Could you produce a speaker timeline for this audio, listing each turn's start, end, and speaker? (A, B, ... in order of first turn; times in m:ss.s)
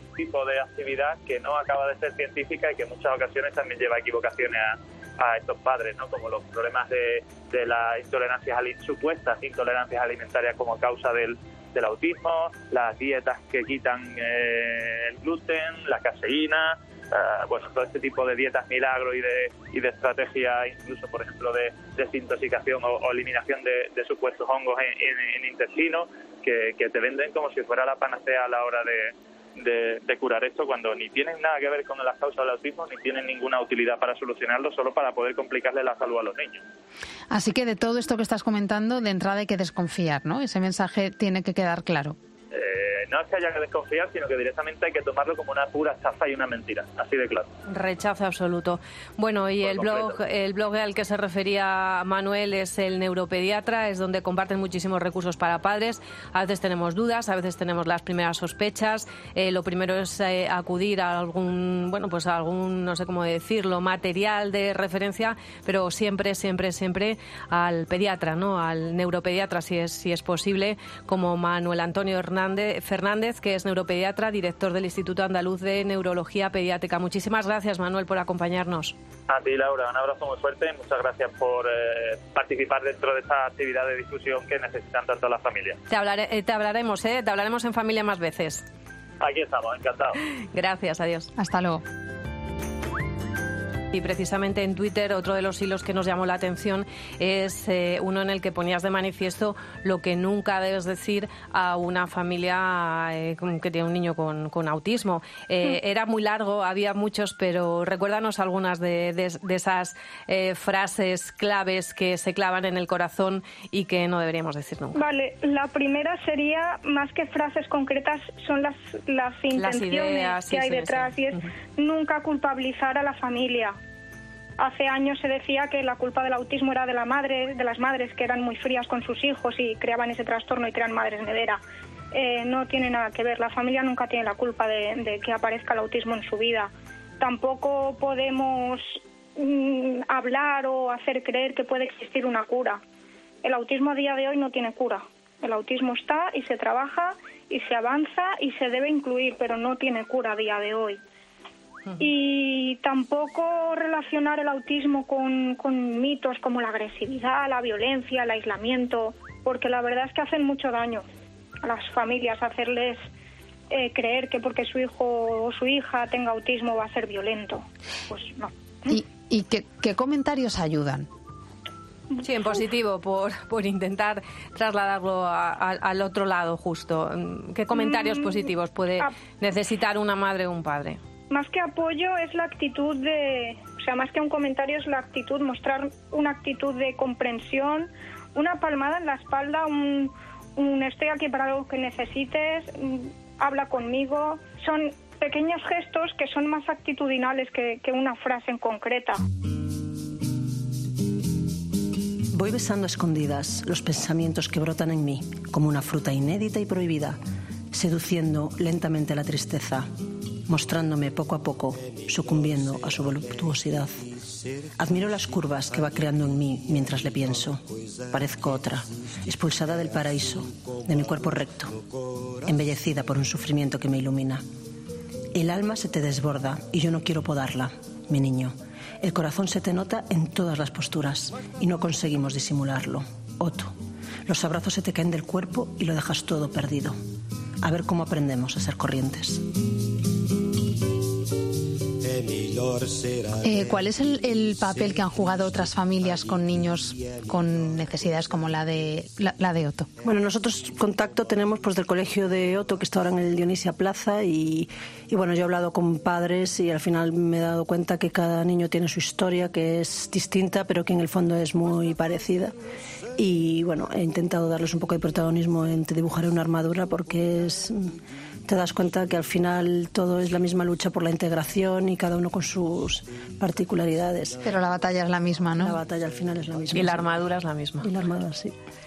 0:00.2-0:36.6 A
0:37.3-0:42.2 B
0:42.5-0:47.5 A
0:47.7-1:18.9 C
0:49.6-0:50.1 A
1:19.3-1:25.8 A
1:25.9-1:28.6 C
1:29.2-1:30.2 A
1:30.5-1:31.3 C
1:31.4-1:31.8 B
1:33.9-1:55.0 C
1:54.9-2:03.8 D
1:59.5-2:01.5 C
2:04.6-2:11.6 D
2:12.1-2:22.8 D
2:23.4-2:31.0 D
2:32.0-2:41.0 D
2:41.6-2:43.0 D
2:43.7-2:48.5 D
2:48.9-2:51.1 B
2:52.2-3:01.0 C
2:57.7-2:58.5 D
3:01.3-3:19.2 D
3:22.3-3:27.2 E
3:27.7-3:29.9 E
3:30.5-3:34.0 E
3:34.8-3:41.8 E
3:42.4-3:44.4 E
3:45.3-3:53.7 E
3:54.2-3:57.0 E
3:57.6-3:59.4 E
4:03.4-4:09.9 B
4:10.0-4:22.5 E
4:23.2-4:34.4 E
4:34.4-4:35.8 B
4:35.6-4:37.1 E
4:36.7-4:37.9 C
4:37.8-4:38.5 E